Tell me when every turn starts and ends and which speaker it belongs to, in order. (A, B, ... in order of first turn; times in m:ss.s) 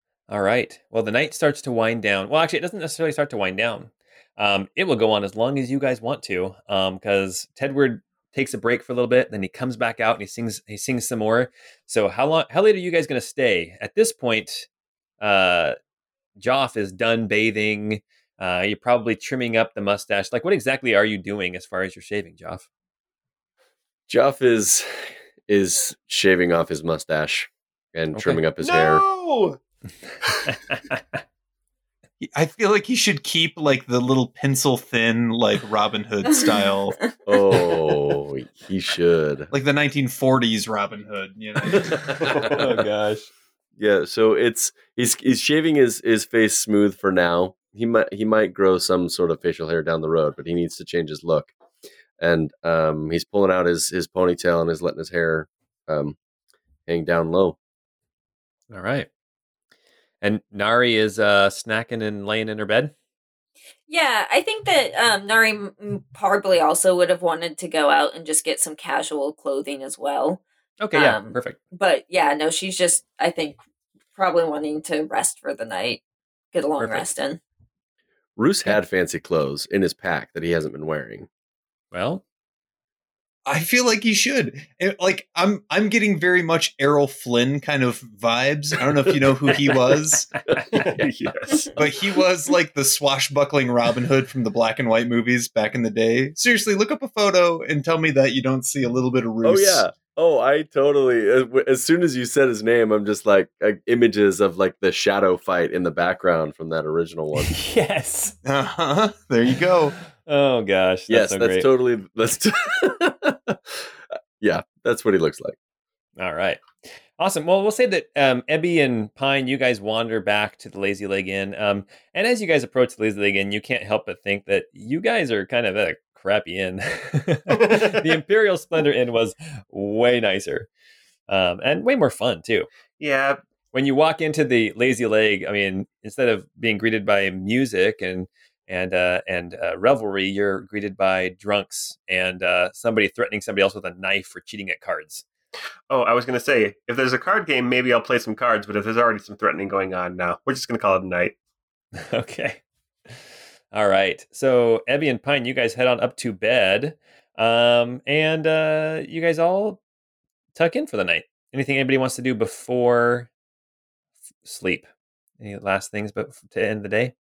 0:00.3-0:14.7 A
0:15.2-0:15.8 A
0:16.4-0:22.7 A
0:24.1-0:29.0 B
0:28.1-0:28.4 A
0:28.6-0:29.6 C
0:30.2-0:30.5 C
0:30.5-0:31.0 A
0:32.2-0:37.0 D
0:36.2-0:37.1 E
0:37.3-0:39.5 B
0:39.5-0:42.2 D
0:41.7-0:42.8 B
0:42.5-0:43.3 A
0:43.8-0:51.5 B
0:52.2-0:56.2 B
0:56.9-0:57.6 B
0:58.7-0:59.1 A
1:00.2-1:02.9 A
1:03.9-1:10.4 E
1:10.8-1:11.6 A
1:10.9-1:13.6 E
1:14.2-1:16.0 E
1:16.5-1:17.4 E
1:16.8-1:17.1 A
1:18.4-1:21.3 B
1:21.9-1:22.2 A
1:23.5-1:30.3 D
1:30.7-1:31.8 C
1:31.8-1:39.8 D
1:39.4-1:47.6 B
1:47.5-1:48.4 A
1:48.4-1:50.0 D
1:50.2-1:51.7 A
1:51.1-1:55.6 B
1:56.2-2:10.7 A
2:07.5-2:08.1 C
2:11.3-2:12.7 A
2:13.0-2:13.4 C
2:13.7-2:25.2 A
2:25.9-2:31.4 C
2:32.0-2:32.6 A
2:33.7-2:39.8 A
2:40.6-2:43.3 A
2:44.4-2:44.9 A
2:45.4-2:47.1 A